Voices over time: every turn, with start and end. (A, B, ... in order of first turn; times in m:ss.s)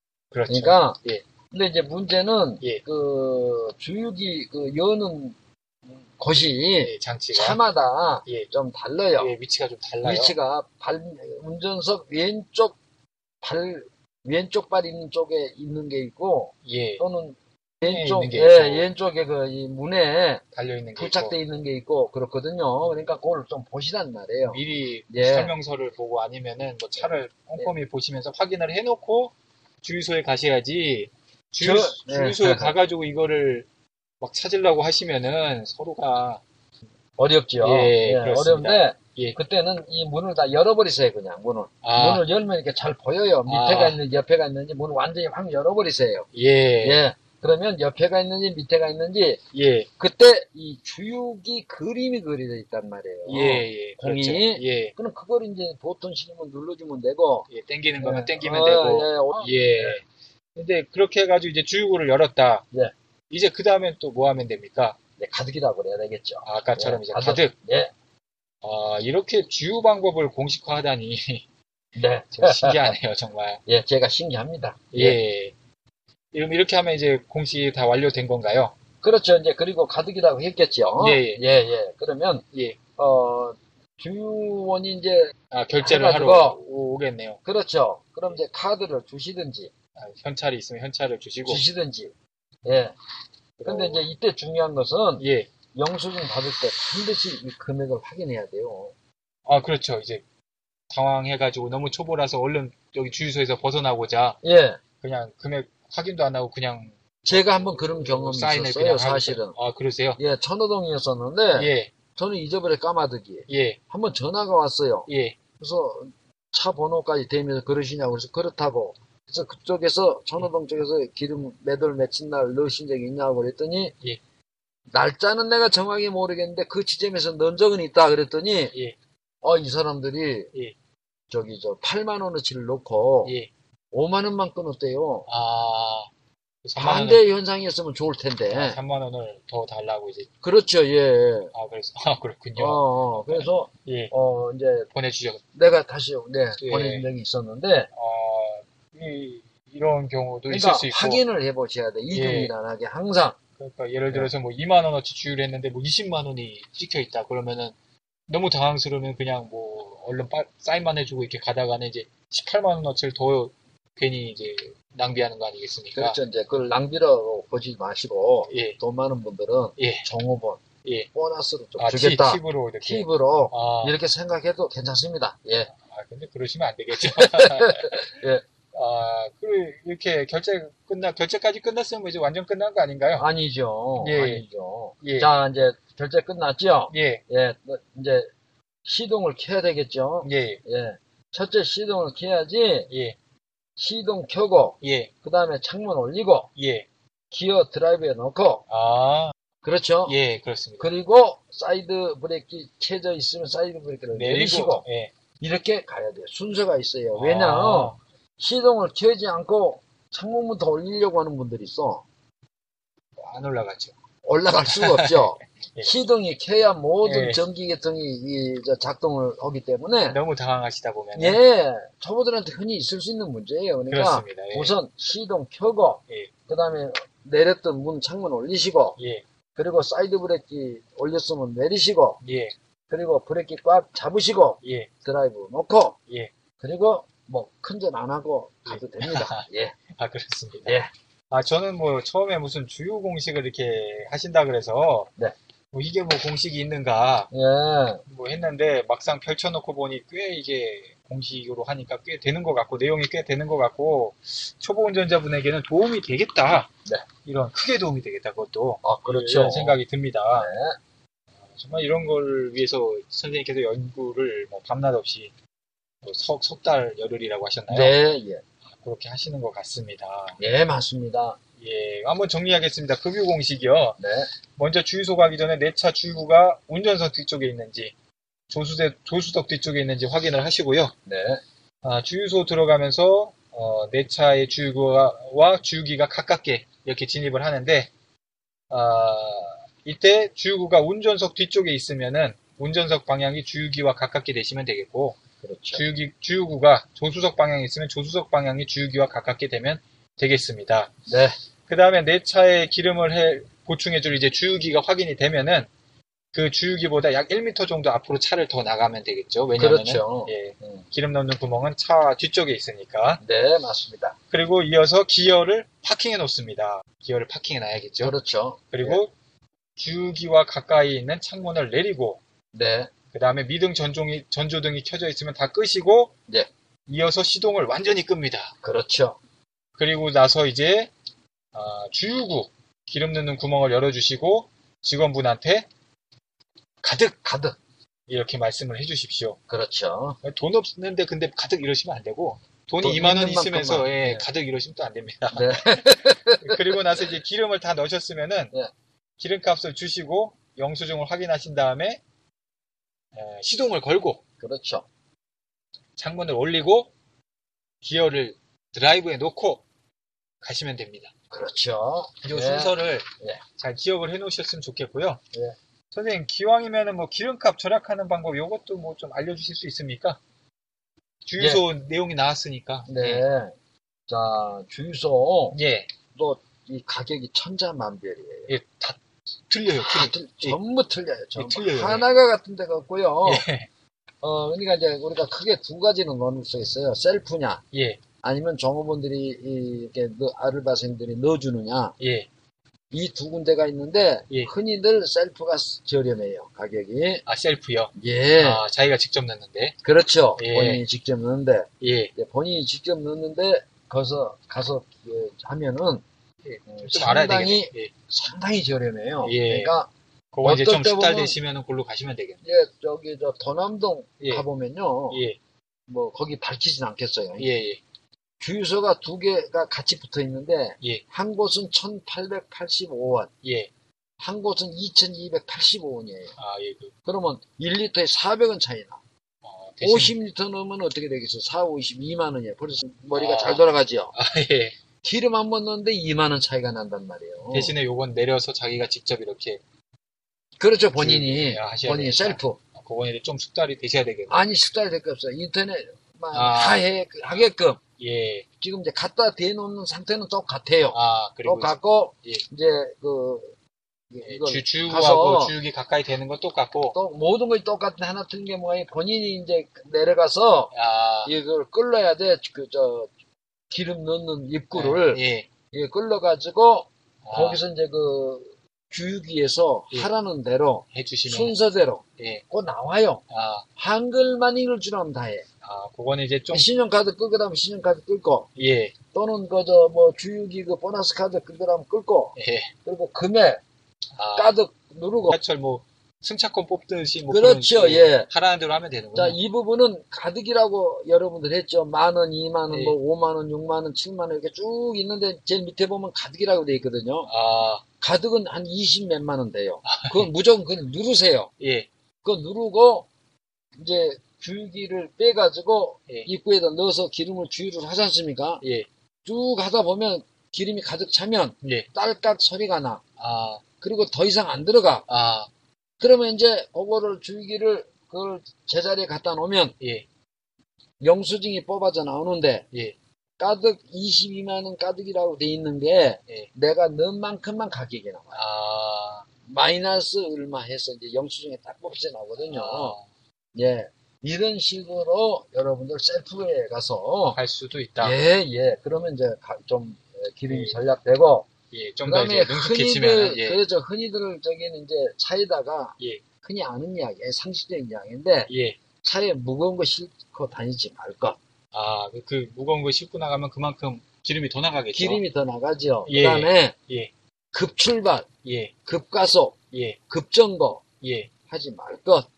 0:00.3-0:01.2 A
0:00.5-0:01.0 B
0:01.5-0:05.4 B
0:06.0-0:09.3 B
0:06.8-0:07.6 A
0:09.2-0:10.3 A
0:10.0-0:12.8 B
0:13.4-0:20.4 B
0:16.6-0:17.0 A
0:17.8-0:18.9 A
0:20.6-0:21.3 A
0:21.0-0:25.5 B
0:24.5-0:33.7 A
0:31.6-0:32.7 B
0:34.2-0:36.4 A
0:37.2-0:46.3 B
0:37.6-0:39.4 A
0:41.8-0:42.2 A
0:43.5-0:44.0 A
0:46.3-0:47.0 A
0:46.8-0:49.4 B
0:49.5-0:49.9 A
0:50.0-0:57.5 B
0:53.3-0:54.9 A
0:57.5-1:00.0 A
0:58.0-1:00.0 B
1:00.6-1:02.7 A
1:03.3-1:05.0 A
1:05.2-1:07.9 B
1:06.4-1:07.5 A
1:08.6-1:11.4 A
1:12.0-1:12.9 B
1:12.4-1:13.6 A
1:13.7-1:15.2 B
1:14.9-1:15.5 A
1:16.3-1:18.8 A
1:19.0-1:22.4 B
1:21.0-1:21.4 A
1:22.5-1:22.8 A
1:23.0-1:26.6 B
1:25.5-1:27.4 A
1:27.4-1:29.7 B
1:30.0-1:31.6 A
1:31.5-1:32.1 B
1:32.6-1:32.9 B
1:33.6-1:34.0 A
1:33.6-1:38.9 B
1:35.2-1:35.5 A
1:39.5-1:40.2 A
1:40.9-1:44.4 A
1:44.4-1:44.8 B
1:45.0-1:50.2 A
1:47.3-1:49.5 B
1:50.2-1:55.1 B
1:51.6-1:51.9 A
1:53.5-1:53.8 A
1:55.1-1:55.4 A
1:55.6-2:04.0 B
2:04.9-2:08.7 B
2:09.4-2:10.5 B
2:11.3-2:13.3 B
2:13.9-2:15.3 B
2:15.3-2:16.1 A
2:16.6-2:17.2 A
2:16.8-2:18.8 B
2:18.5-2:20.3 A
2:20.4-2:21.5 B
2:21.5-2:24.1 A
2:22.6-2:24.9 B
2:25.0-2:25.4 A
2:25.6-2:27.9 B
2:26.6-2:27.1 A
2:27.9-2:31.2 A
2:30.5-2:33.4 B
2:32.1-2:32.5 A
2:33.6-2:37.8 A
2:38.3-2:46.2 A
2:46.0-2:50.6 B
2:48.5-2:48.8 A
2:49.8-2:50.1 A
2:51.1-2:55.7 B
2:51.8-2:54.0 A
2:55.8-2:58.0 A
2:57.0-2:58.4 B
2:58.7-3:03.3 A
3:03.2-3:08.3 B
3:04.0-3:04.4 A
3:05.0-3:05.3 A
3:06.9-3:07.2 A
3:08.8-3:12.9 B
3:10.2-3:10.6 A
3:12.9-3:13.2 A
3:13.8-3:16.5 B
3:14.8-3:15.1 A
3:16.6-3:16.9 A
3:17.3-3:18.6 B
3:18.7-3:19.3 A
3:19.6-3:20.2 B
3:20.1-3:20.9 A
3:20.8-3:24.8 B
3:24.1-3:25.1 A
3:25.4-3:32.0 B
3:27.2-3:28.0 A
3:33.2-3:33.9 A
3:34.2-3:40.2 B
3:34.7-3:35.9 A
3:37.0-3:37.4 A
3:40.1-3:41.4 A
3:41.2-3:49.0 B
3:43.9-3:44.7 A
3:49.0-3:49.2 A
3:49.6-3:52.2 B
3:52.2-3:52.5 A
3:52.9-3:56.0 B
3:54.6-3:54.9 A
3:56.6-3:59.8 B
3:58.7-4:00.8 A
4:00.6-4:00.9 B
4:01.3-4:05.1 A
4:05.7-4:07.3 A
4:07.3-4:08.0 B
4:08.1-4:16.7 A
4:17.2-4:20.5 A
4:18.8-4:19.8 B
4:20.3-4:20.8 B
4:21.5-4:25.3 A
4:26.0-4:28.0 A
4:27.7-4:28.4 B
4:28.8-4:30.4 A
4:30.4-4:31.4 B
4:31.6-4:34.0 A
4:34.0-4:34.3 B
4:34.6-4:37.9 A
4:38.5-4:40.9 A
4:41.1-4:41.4 B
4:41.8-4:47.9 A
4:48.7-4:55.2 A
4:55.4-4:55.8 B
4:55.7-5:00.9 A
5:01.1-5:01.4 B
5:01.7-5:05.7 A
5:06.3-5:13.2 A
5:09.6-5:10.8 B
5:13.2-5:14.2 B
5:14.3-5:18.2 A
5:18.0-5:19.0 B
5:18.7-5:19.1 A
5:19.8-5:22.2 A
5:22.5-5:22.9 B
5:23.1-5:26.1 A
5:26.9-5:28.5 A
5:28.6-5:29.2 B
5:29.8-5:30.9 A
5:31.5-5:35.7 A
5:36.8-5:37.6 B
5:38.1-5:39.4 A
5:39.5-5:40.2 B
5:40.2-5:48.5 A
5:42.8-5:44.2 B
5:45.3-5:46.8 B
5:49.2-5:52.0 A
5:53.1-5:54.2 A
5:54.4-5:54.8 B
5:56.0-5:56.9 A
5:57.8-5:59.6 A
6:00.4-6:01.1 A
6:01.3-6:03.4 B
6:02.2-6:03.1 A
6:03.6-6:05.2 A
6:05.9-6:10.2 A
6:11.3-6:13.2 A
6:12.9-6:13.5 B
6:14.1-6:15.6 B
6:15.5-6:15.9 A
6:16.2-6:18.5 B
6:18.5-6:19.0 A
6:19.5-6:20.6 A
6:19.8-6:23.4 B
6:21.4-6:22.1 A
6:23.2-6:23.7 A
6:24.2-6:27.6 B
6:27.7-6:28.0 A
6:28.2-6:32.0 B
6:32.0-6:32.3 A
6:32.9-6:37.2 B
6:37.3-6:39.8 A
6:38.0-6:38.6 B
6:39.8-6:46.0 B
6:40.4-6:40.8 A
6:41.8-6:42.1 A
6:46.4-6:47.9 A
6:46.7-6:49.9 B
6:49.2-6:49.7 A
6:50.3-6:52.4 A
6:50.4-6:51.4 B
6:52.4-6:55.2 B
6:55.1-6:55.4 A
6:55.9-6:57.5 B
6:57.4-6:57.8 A
6:58.4-7:03.3 B
7:03.4-7:03.7 A
7:04.2-7:06.4 B
7:06.4-7:06.9 A
7:07.1-7:09.0 B
7:09.4-7:10.2 A
7:09.8-7:14.1 B
7:13.2-7:14.8 A
7:15.0-7:17.7 B
7:17.5-7:19.6 A
7:20.6-7:22.6 B
7:21.0-7:24.4 A
7:24.3-7:27.8 B
7:26.3-7:26.8 A
7:28.0-7:28.4 A
7:28.6-7:33.5 B
7:30.9-7:31.7 A
7:34.1-7:35.5 B
7:34.3-7:37.0 A
7:36.9-7:40.7 B
7:40.7-7:41.3 A
7:41.2-7:43.1 B
7:43.7-7:53.2 B
7:44.7-7:45.5 A
7:47.2-7:47.6 A
7:50.9-7:51.6 A
7:52.2-7:52.4 A
7:53.3-7:53.6 A
7:53.8-7:55.4 B
7:55.6-7:56.7 A
7:56.5-7:58.5 B
7:58.6-7:59.0 A
7:59.1-8:03.6 B
8:02.4-8:02.7 A
8:04.2-8:04.5 A
8:04.4-8:05.4 B
8:05.3-8:09.4 A
8:07.3-8:08.3 B
8:09.2-8:17.3 B
8:12.7-8:13.0 A
8:17.3-8:17.8 A
8:18.0-8:21.5 B
8:19.9-8:20.3 A
8:21.6-8:21.9 A
8:22.2-8:23.1 B
8:23.8-8:28.6 B
8:29.3-8:33.0 B
8:31.6-8:31.9 A
8:33.2-8:33.6 A
8:33.8-8:35.1 B
8:35.1-8:35.5 A
8:36.0-8:39.8 B
8:41.0-8:42.7 B
8:43.4-8:48.4 B
8:48.4-8:49.3 A
8:49.5-8:53.0 B
8:52.4-8:53.0 A
8:53.6-8:57.4 B
8:57.4-8:58.2 A
8:58.0-9:01.5 B
9:00.5-9:00.8 A
9:01.7-9:03.6 A
9:02.0-9:08.5 B
9:08.5-9:08.8 A
9:09.0-9:11.4 B
9:11.7-9:15.2 A
9:14.9-9:16.7 B
9:16.1-9:17.1 A
9:17.5-9:18.3 B
9:18.4-9:18.7 A
9:18.9-9:19.6 B
9:19.7-9:20.0 A
9:20.1-9:20.8 B
9:21.0-9:21.3 A
9:21.5-9:22.3 B